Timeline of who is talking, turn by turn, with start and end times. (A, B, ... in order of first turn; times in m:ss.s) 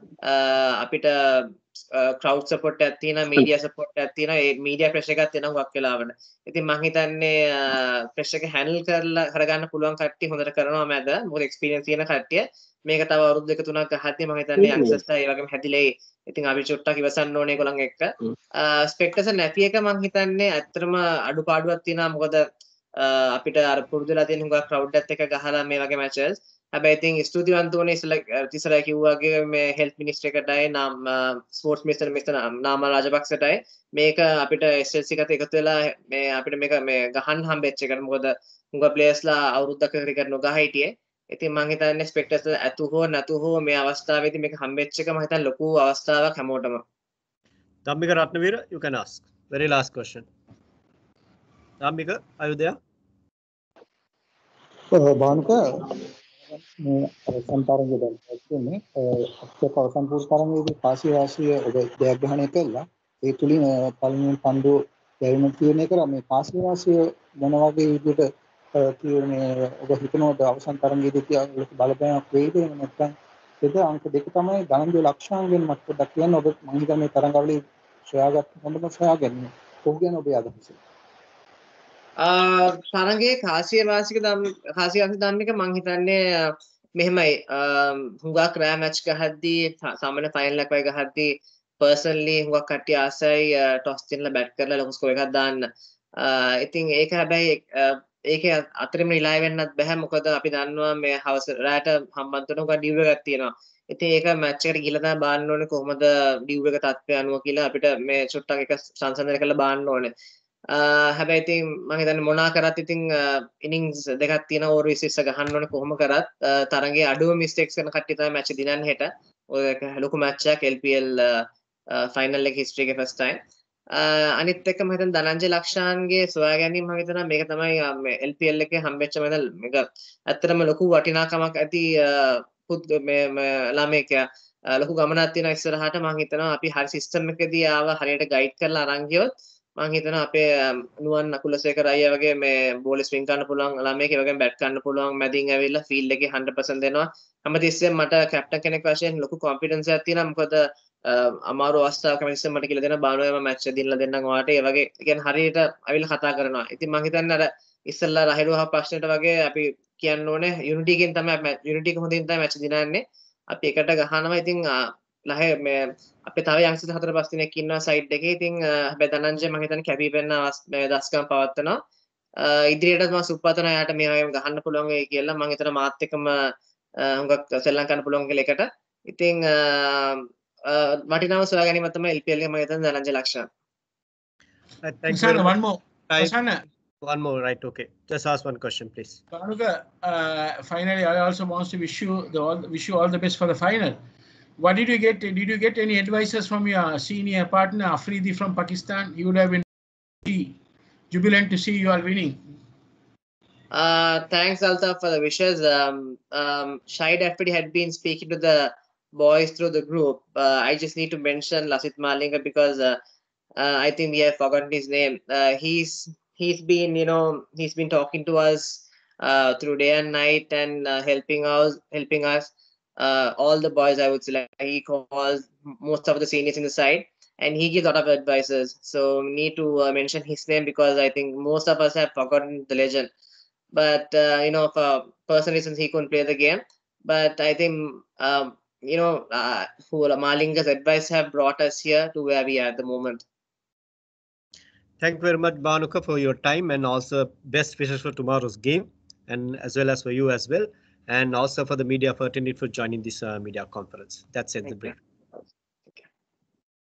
0:00.2-0:46.8 A
0:47.8-0:50.2 B
0:51.8-0:52.8 B
0:54.9-1:20.8 C
1:22.2-1:50.1 A
1:50.7-2:03.4 A
2:03.9-2:51.8 A
2:52.4-3:03.5 A
3:04.8-3:05.6 B
3:05.1-3:06.6 D
3:06.1-3:06.3 B
3:07.0-3:09.2 B
3:09.3-3:14.0 D
3:14.6-3:19.6 D
3:20.2-3:20.6 D
3:21.1-3:22.4 D
3:23.7-3:33.0 A
3:33.6-3:53.1 A
3:53.7-4:03.2 A
4:05.0-4:15.0 B